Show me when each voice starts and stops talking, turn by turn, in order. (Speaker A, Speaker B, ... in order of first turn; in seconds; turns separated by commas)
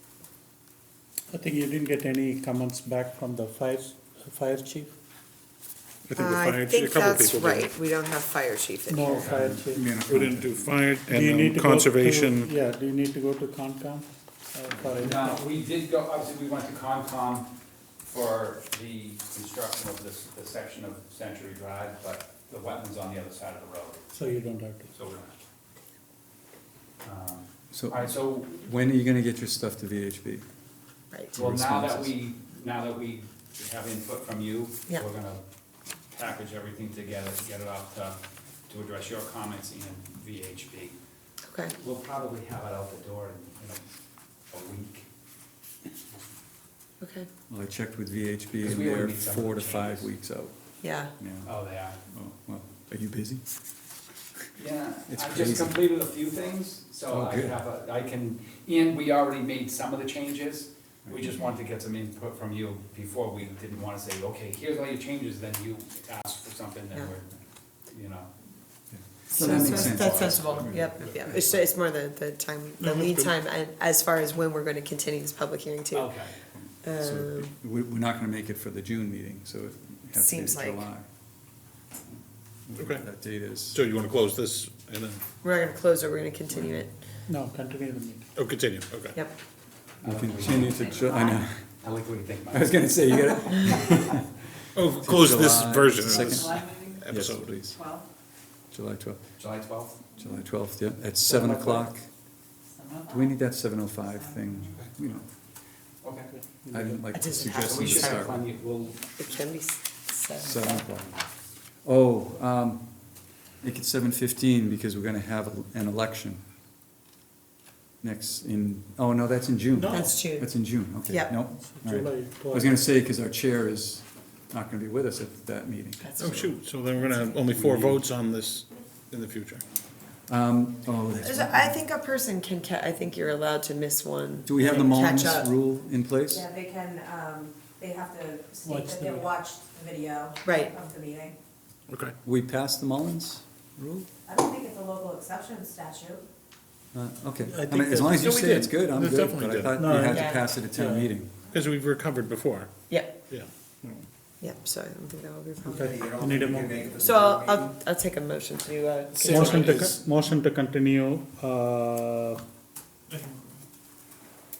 Speaker A: 1.3-4.9, Speaker B: 6.1-7.7, Speaker C: 6.2-9.3, Speaker A: 8.9-10.0, Speaker D: 9.1-9.4, Speaker E: 9.2-10.7, Speaker B: 9.9-12.5, Speaker A: 11.1-15.4, Speaker D: 15.0-17.5, Speaker D: 18.0-24.1, Speaker A: 24.1-24.9, Speaker D: 24.9-25.4, Speaker D: 27.0-28.7, Speaker E: 27.7-30.4, Speaker E: 31.3-32.1, Speaker D: 31.4-35.4, Speaker D: 36.1-41.0, Speaker C: 41.5-41.7, Speaker D: 41.7-43.8, Speaker D: 44.5-45.1, Speaker C: 47.0-47.3, Speaker E: 47.5-50.5, Speaker D: 48.6-50.1, Speaker C: 50.8-51.1, Speaker E: 51.2-51.5, Speaker D: 51.5-52.0, Speaker E: 52.0-53.5, Speaker D: 54.6-68.3, Speaker E: 55.1-55.8, Speaker E: 57.1-57.6, Speaker E: 68.9-71.5, Speaker D: 69.3-71.6, Speaker C: 69.3-76.1, Speaker B: 72.8-73.3, Speaker D: 75.9-76.4, Speaker E: 76.5-81.1, Speaker C: 76.8-77.5, Speaker C: 80.2-80.9, Speaker E: 82.7-83.8, Speaker B: 82.8-83.0, Speaker B: 83.7-85.2, Speaker C: 85.4-86.9, Speaker A: 87.3-88.3, Speaker B: 88.4-89.2, Speaker E: 90.0-91.6, Speaker D: 90.0-90.9, Speaker D: 91.8-92.9, Speaker E: 92.5-94.3, Speaker B: 94.8-97.5, Speaker E: 95.0-97.8, Speaker E: 98.7-99.3, Speaker D: 99.4-100.1, Speaker E: 100.1-102.1, Speaker D: 101.2-101.9, Speaker E: 103.1-105.3, Speaker D: 106.0-106.3, Speaker A: 106.3-107.0, Speaker E: 106.7-108.5, Speaker C: 107.1-108.2, Speaker D: 107.6-109.0, Speaker C: 109.2-110.8, Speaker E: 110.4-111.2, Speaker E: 111.8-113.0, Speaker E: 113.6-116.4, Speaker E: 118.0-126.5, Speaker A: 119.7-120.1, Speaker C: 119.9-120.5, Speaker C: 121.0-121.4, Speaker A: 121.5-122.7, Speaker C: 126.0-126.5, Speaker B: 126.2-129.6, Speaker E: 130.3-131.8, Speaker C: 131.2-135.5, Speaker E: 134.5-136.5, Speaker F: 136.4-141.3, Speaker A: 138.6-139.4, Speaker C: 140.4-140.8, Speaker B: 141.9-142.2, Speaker E: 142.2-144.1, Speaker F: 144.3-146.2, Speaker E: 146.9-151.3, Speaker A: 147.5-148.3, Speaker B: 148.1-149.8, Speaker A: 149.7-151.1, Speaker C: 150.1-150.5, Speaker B: 151.5-152.7, Speaker C: 152.9-153.2, Speaker B: 153.3-154.1, Speaker C: 154.4-155.9, Speaker A: 155.6-156.9, Speaker E: 156.8-157.4, Speaker C: 156.9-159.8, Speaker B: 159.2-160.0, Speaker A: 159.2-162.4, Speaker B: 163.1-163.6